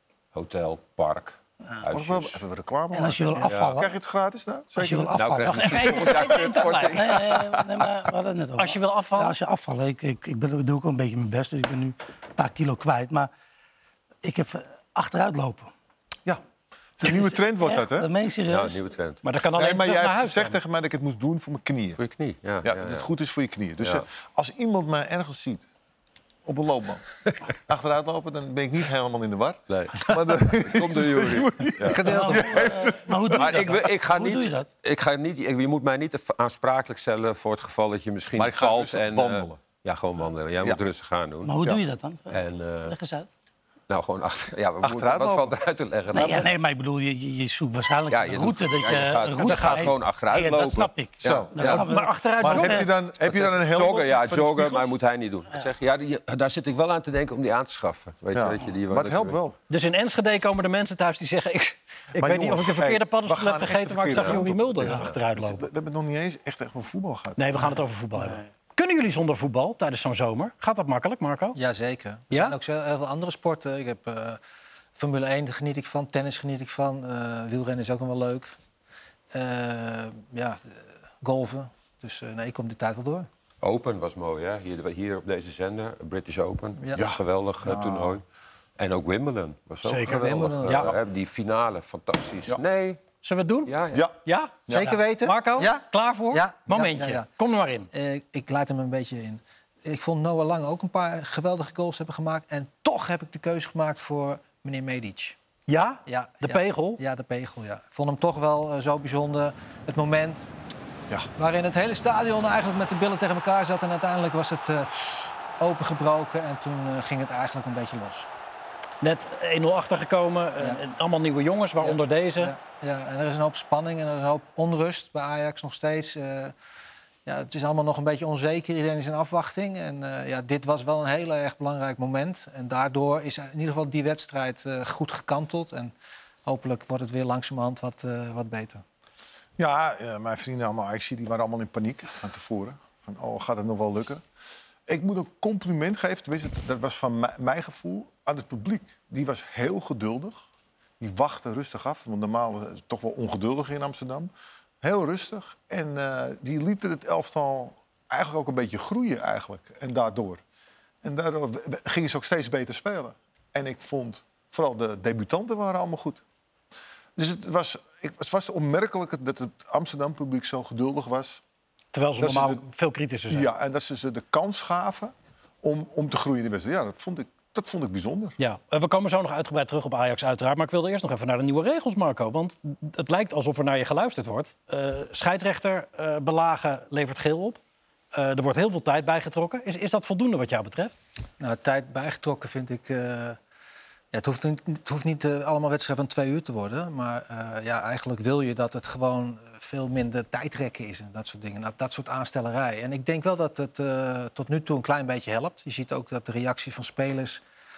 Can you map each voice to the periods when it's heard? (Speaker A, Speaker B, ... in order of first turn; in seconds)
Speaker A: 0.3-2.4, 3.5-3.7, 5.2-8.0, 18.5-19.2, 22.0-23.1, 29.7-32.0, 33.3-41.5, 42.3-42.9, 43.9-46.5, 48.1-51.8, 53.2-59.4, 64.1-65.1, 83.6-88.2, 88.8-93.0, 93.7-94.1
Speaker B: 1.9-5.1, 17.0-18.1, 19.5-22.0, 22.6-25.6, 26.4-33.7, 38.4-39.6, 44.8-45.6, 51.2-51.8, 52.4-54.9, 58.3-59.6, 62.1-67.6, 87.0-88.2, 94.7-94.9, 139.6-144.2, 144.9-150.4, 151.0-154.3, 154.8-160.4, 161.0-166.2, 167.2-171.4, 172.2-172.6, 173.3-178.4
Speaker C: 2.9-3.9, 4.8-6.2, 6.9-13.3, 14.2-15.7, 17.0-18.8, 32.1-34.7, 41.4-43.3, 46.1-52.7
Speaker D: 5.5-7.0, 8.6-9.3, 19.2-20.6, 49.4-49.9, 51.6-52.9, 59.7-65.7, 67.4-71.6, 89.8-90.9, 93.2-93.7, 94.2-97.9, 105.7-107.0, 119.0-122.5, 171.9-173.5, 178.4-187.6, 188.1-190.9
Speaker E: 31.9-32.6, 71.5-74.4, 75.0-78.5, 79.3-83.3, 90.0-90.9, 94.7-97.3, 97.9-105.3, 106.0-110.5, 111.4-118.3, 121.8-126.5, 127.2-135.9, 136.4-138.8, 191.4-193.4, 194.1-207.4